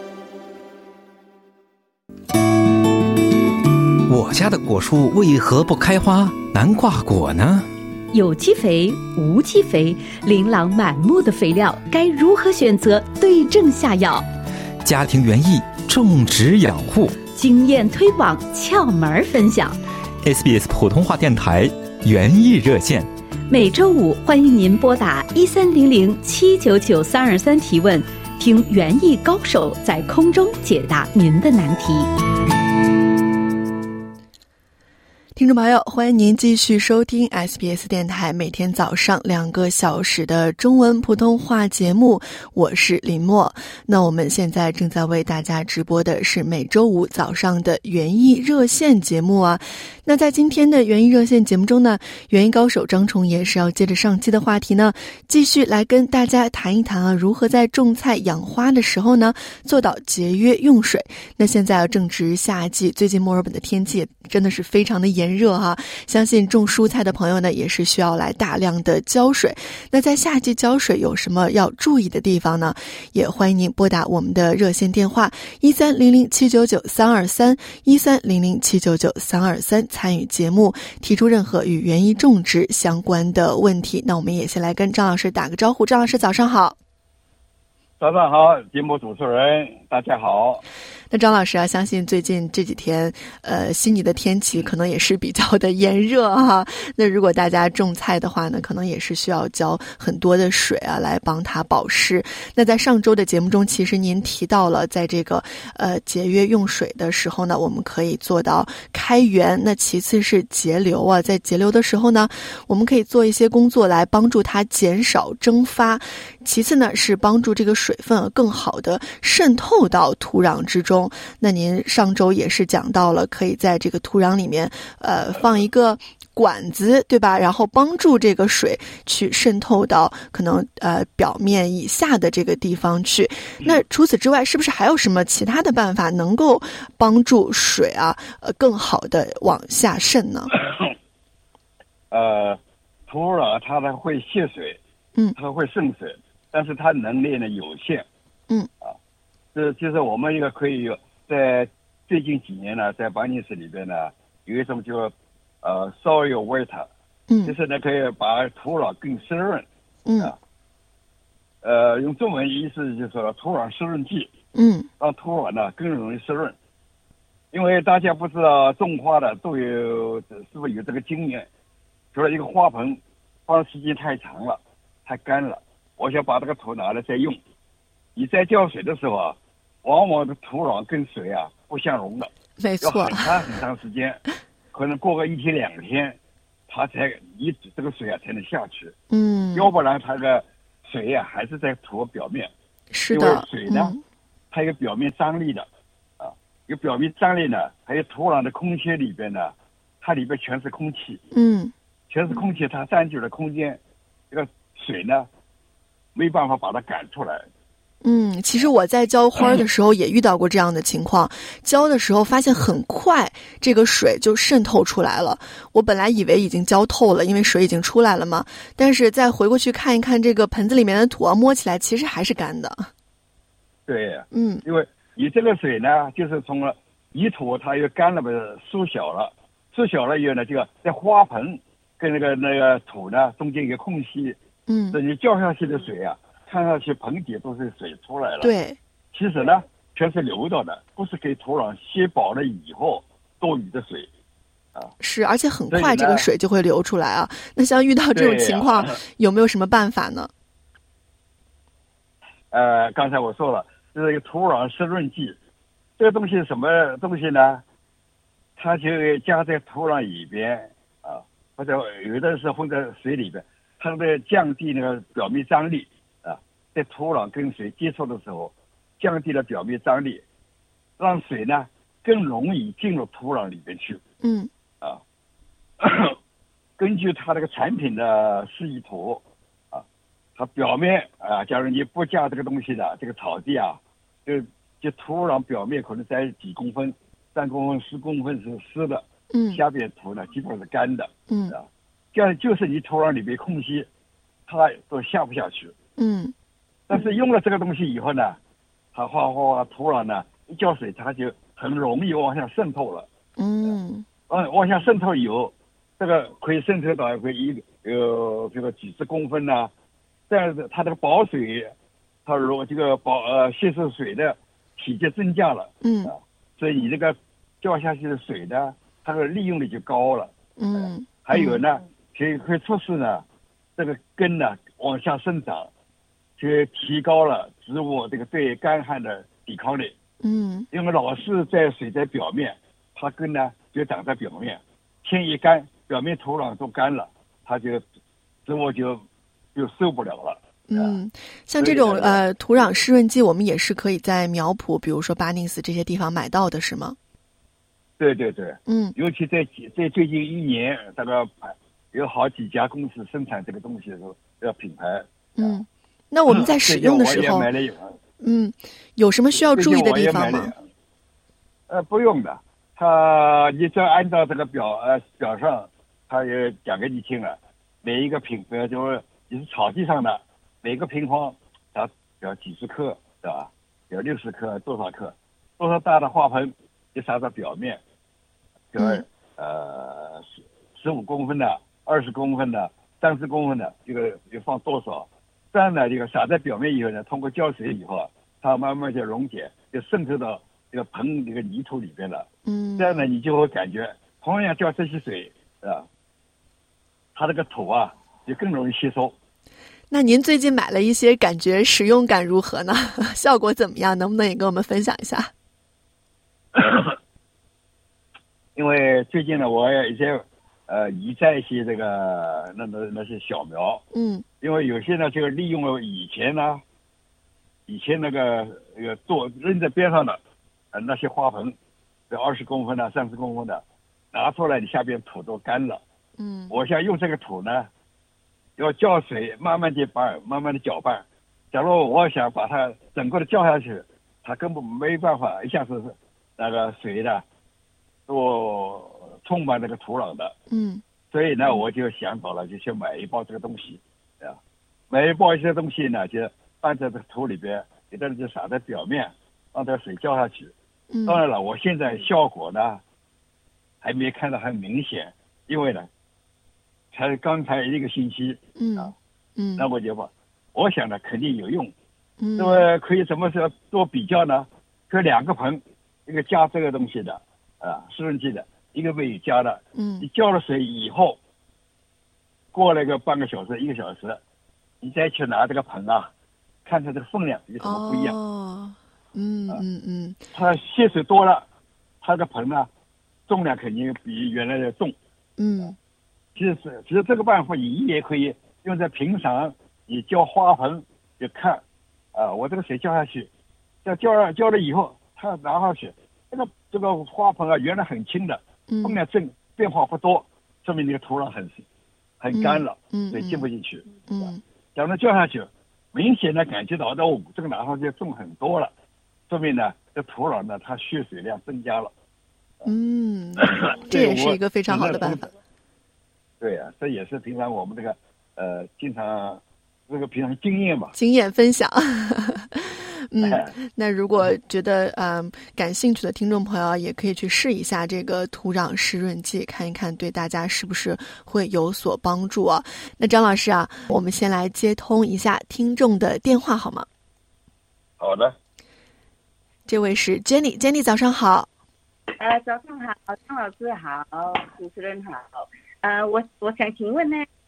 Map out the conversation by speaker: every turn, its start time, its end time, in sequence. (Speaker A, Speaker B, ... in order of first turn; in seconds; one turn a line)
Speaker A: 4.1-7.7
Speaker B: 8.1-14.3
Speaker A: 14.8-17.2
Speaker B: 17.2-19.8
Speaker A: 20.2-23.1
Speaker B: 23.5-32.1
Speaker C: 35.4-86.8
Speaker D: 88.0-90.6
Speaker C: 91.1-140.5
Speaker D: 142.1-144.8
Speaker D: 145.3-148.1
Speaker D: 149.5-156.9
Speaker C: 157.3-157.5
Speaker D: 157.4-159.7
Speaker C: 160.1-160.3
Speaker D: 161.6-164.3
Speaker C: 164.6-164.9
Speaker D: 165.0-166.6
Speaker D: 167.5-171.5
Speaker D: 172.1-177.4
Speaker D: 178.2-182.3
Speaker C: 182.6-183.3
Speaker D: 182.8-184.2
Speaker D: 184.7-188.9
Speaker C: 189.1-189.7
Speaker D: 189.6-192.5
Speaker C: 192.9-194.0
Speaker D: 193.1-193.9
Speaker D: 194.5-195.7
Speaker D: 196.2-201.2
Speaker C: 201.3-201.7
Speaker D: 202.1-203.8
Speaker D: 204.3-205.3
Speaker D: 206.2-207.5
Speaker C: 208.0-222.9
Speaker D: 223.9-234.4
Speaker C: 224.3-224.6
Speaker C: 234.7-235.0
Speaker D: 234.9-238.5
Speaker C: 238.4-238.8
Speaker D: 239.1-244.1
Speaker C: 245.0-250.3
Speaker D: 245.7-246.3
Speaker D: 248.2-249.0
Speaker D: 252.5-255.4
Speaker D: 256.0-257.6
Speaker D: 258.6-270.2
Speaker D: 271.0-274.0
Speaker C: 274.2-274.5
Speaker D: 275.8-276.2
Speaker D: 276.8-279.8
Speaker D: 280.4-293.9
Speaker C: 289.3-289.6
Speaker C: 291.3-291.6
Speaker D: 294.5-295.7
Speaker C: 296.0-296.3
Speaker D: 296.9-298.4
Speaker D: 298.9-303.1
Speaker C: 303.4-304.1
Speaker D: 304.3-309.7
Speaker D: 310.3-311.7
Speaker D: 312.3-323.2
Speaker C: 315.8-316.1
Speaker C: 320.6-321.6
Speaker D: 323.8-325.7
Speaker D: 326.4-329.9
Speaker C: 330.2-330.7
Speaker D: 330.7-337.8
Speaker D: 338.5-339.0
Speaker D: 339.6-341.0
Speaker C: 340.7-347.0
Speaker D: 341.6-342.2
Speaker D: 348.0-355.6
Speaker C: 348.7-349.0
Speaker C: 355.4-357.5
Speaker D: 356.3-358.0
Speaker C: 358.2-360.5
Speaker D: 359.5-360.6
Speaker D: 361.7-377.8
Speaker D: 378.7-392.3
Speaker C: 378.8-379.0
Speaker C: 392.4-393.1
Speaker D: 392.8-395.9
Speaker D: 397.2-399.1
Speaker C: 399.9-405.3
Speaker D: 406.6-406.9
Speaker D: 408.6-413.8
Speaker C: 413.9-414.2
Speaker D: 414.4-416.6
Speaker D: 417.7-420.2
Speaker D: 420.7-421.6
Speaker D: 422.1-423.6
Speaker D: 424.1-425.8
Speaker C: 426.2-426.5
Speaker D: 426.5-427.7
Speaker D: 428.6-437.2
Speaker D: 438.1-440.3
Speaker C: 440.5-440.8
Speaker D: 441.1-444.4
Speaker D: 444.9-450.5
Speaker C: 450.9-451.2
Speaker D: 451.1-452.8
Speaker D: 453.8-455.9
Speaker D: 456.9-458.9
Speaker C: 458.6-459.7
Speaker D: 459.6-461.7
Speaker C: 462.2-462.7
Speaker D: 462.4-471.2
Speaker C: 469.8-470.1
Speaker D: 472.5-474.2
Speaker D: 474.8-476.1
Speaker D: 476.7-478.2
Speaker C: 477.6-480.2
Speaker D: 480.3-481.4
Speaker D: 482.0-482.7
Speaker D: 483.3-484.9
Speaker C: 485.4-485.8
Speaker D: 486.4-491.6
Speaker D: 492.1-493.3
Speaker D: 493.9-501.7
Speaker C: 498.7-499.0
Speaker D: 502.2-503.9
Speaker C: 502.3-503.5
Speaker C: 504.1-504.4
Speaker D: 504.8-508.7
Speaker D: 509.3-511.9
Speaker C: 512.6-515.3
Speaker D: 513.4-515.3
Speaker D: 516.4-520.9
Speaker C: 521.0-536.9
Speaker D: 523.2-523.5
Speaker D: 538.0-538.4
Speaker C: 539.7-541.5
Speaker E: 542.2-547.3